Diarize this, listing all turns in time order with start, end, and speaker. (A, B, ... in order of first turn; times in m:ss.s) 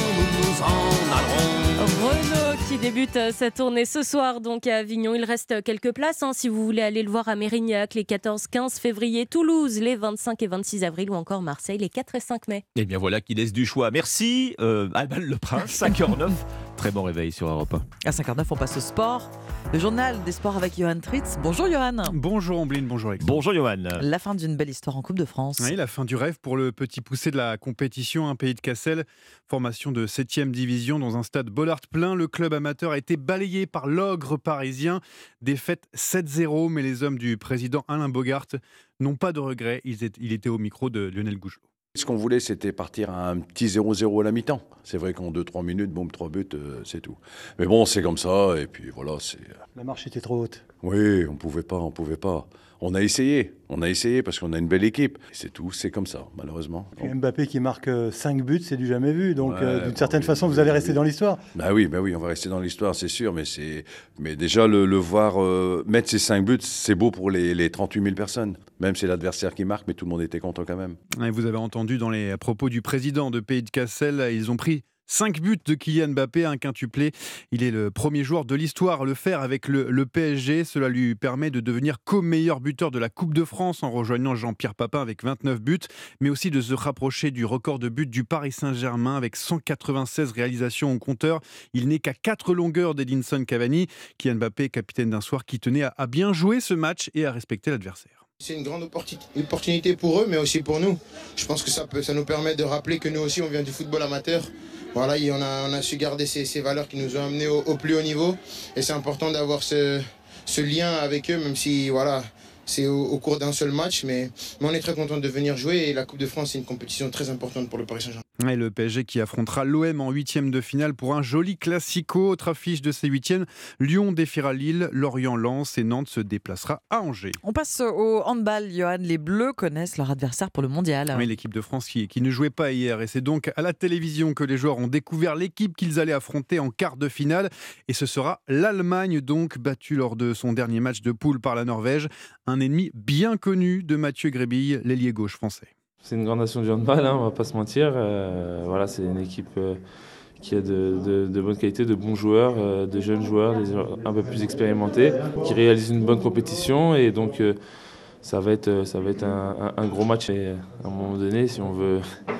0:01.8-0:12.6 A
0:12.8-0:17.8 B
0:18.0-0:22.1 C
0:22.1-0:23.4 D
0:23.2-0:24.0 B
0:24.0-0:25.7 C
0:25.6-0:41.6 D
0:42.0-0:49.6 E
0:49.8-0:50.6 F
0:50.8-0:57.2 E
0:57.0-1:01.4 F
0:59.4-1:11.0 E
1:11.2-1:38.2 D
1:38.4-1:58.2 G
1:58.4-2:07.4 D
2:07.4-2:11.3 C
2:11.1-2:25.7 D
2:26.0-2:29.8 H
2:30.4-2:37.6 H
2:38.2-2:42.0 H